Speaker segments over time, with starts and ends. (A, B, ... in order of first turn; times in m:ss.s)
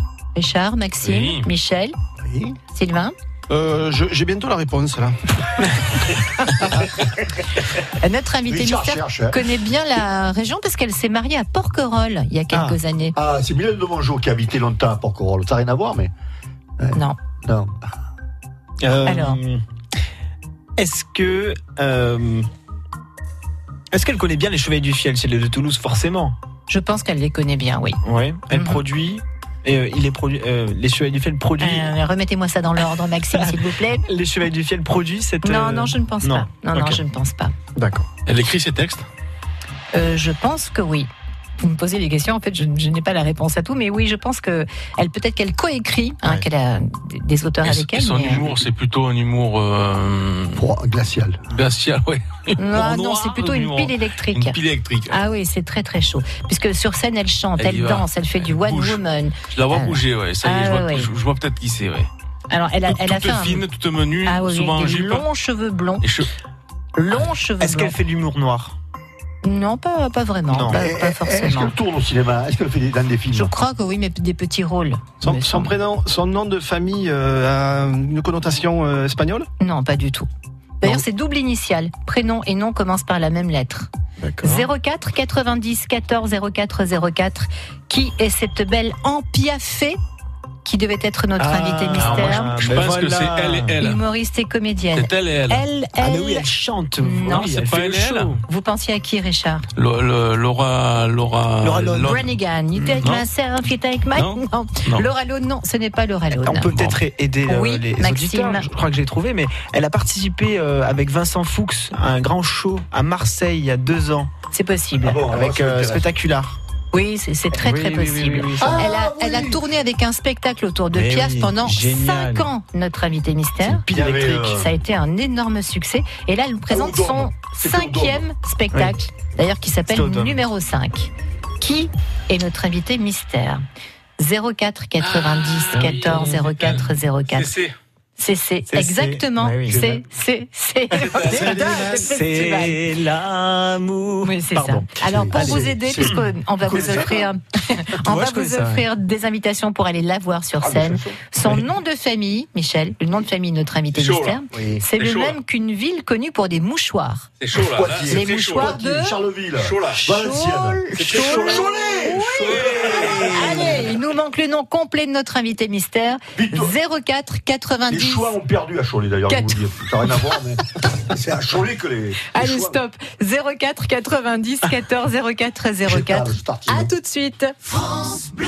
0:00.4-0:02.0 A
0:01.0-0:01.5 B
0:02.2-0:02.6 C
0:02.7-0:03.1 A
0:03.5-0:05.2 D
0:08.0-0:13.2 A
0:08.5-0:09.4 C
0:12.5-0:12.8 E
0:13.2-0:16.1 C
0:16.8-0:17.8 C
0:18.8-0:19.6 E
0:19.0-0:19.4 A
0:20.8-0:22.5 E
0:23.9-0:26.4 E
0:26.7-0:28.8 A
0:28.0-0:31.9 E
0:31.6-0:34.0 A
0:34.0-0:37.0 E
0:35.4-0:37.5 A
0:37.8-0:38.1 E
0:38.2-0:39.1 B
0:39.9-0:41.1 A
0:41.6-0:48.5 A
0:47.6-0:50.7 B
0:50.6-0:51.4 C
0:51.5-0:55.2 B
0:52.6-0:54.6 A
0:55.1-1:01.1 A
0:57.6-1:02.1 B
1:02.5-1:03.6 A
1:02.8-1:05.3 B
1:04.2-1:06.1 A
1:06.0-1:06.3 B
1:07.0-1:08.0 A
1:07.1-1:08.8 E
1:09.4-1:11.7 A
1:10.5-1:10.8 E
1:10.7-1:13.5 C
1:13.3-1:15.7 A
1:15.2-1:19.5 D
1:19.6-1:20.3 A
1:20.8-1:23.9 A
1:24.2-1:24.7 E
1:24.4-1:30.0 A
1:30.6-1:32.6 A
1:31.4-1:33.8 E
1:32.0-1:34.0 B
1:33.8-1:37.6 A
1:34.9-1:35.7 B
1:36.0-1:38.4 E
1:37.2-1:38.4 B
1:38.4-1:39.7 A
1:39.8-1:42.3 B
1:41.6-1:42.2 E
1:42.0-1:46.7 A
1:42.8-1:43.1 E
1:43.0-1:43.3 B
1:44.1-1:45.1 B
1:46.3-1:54.3 E
1:46.7-1:47.0 B
1:47.5-1:48.7 A
1:54.5-1:55.2 A
1:55.0-1:56.1 C
1:55.3-1:56.6 E
1:56.9-2:13.6 A
1:57.5-1:58.9 E
1:58.6-1:59.6 C
2:00.9-2:02.5 E
2:03.9-2:04.7 C
2:06.7-2:08.2 C
2:09.9-2:10.4 E
2:14.2-2:17.6 A
2:15.0-2:17.7 B
2:18.2-2:22.8 A
2:18.7-2:20.0 E
2:20.9-2:26.2 E
2:21.1-2:21.5 B
2:21.4-2:22.1 D
2:24.2-2:37.3 A
2:25.0-2:26.2 C
2:26.7-2:27.2 C
2:28.1-2:28.8 E
2:30.6-2:31.1 C
2:33.9-2:34.4 B
2:35.0-2:35.4 B
2:37.4-2:38.8 B
2:37.5-2:43.7 C
2:38.1-2:39.2 A
2:39.6-2:40.0 B
2:40.0-2:42.6 A
2:42.4-2:43.5 B
2:43.3-2:48.3 A
2:46.4-2:46.8 C
2:47.9-2:52.8 C
2:49.3-2:49.6 A
2:52.3-2:57.6 A
2:55.8-2:56.9 C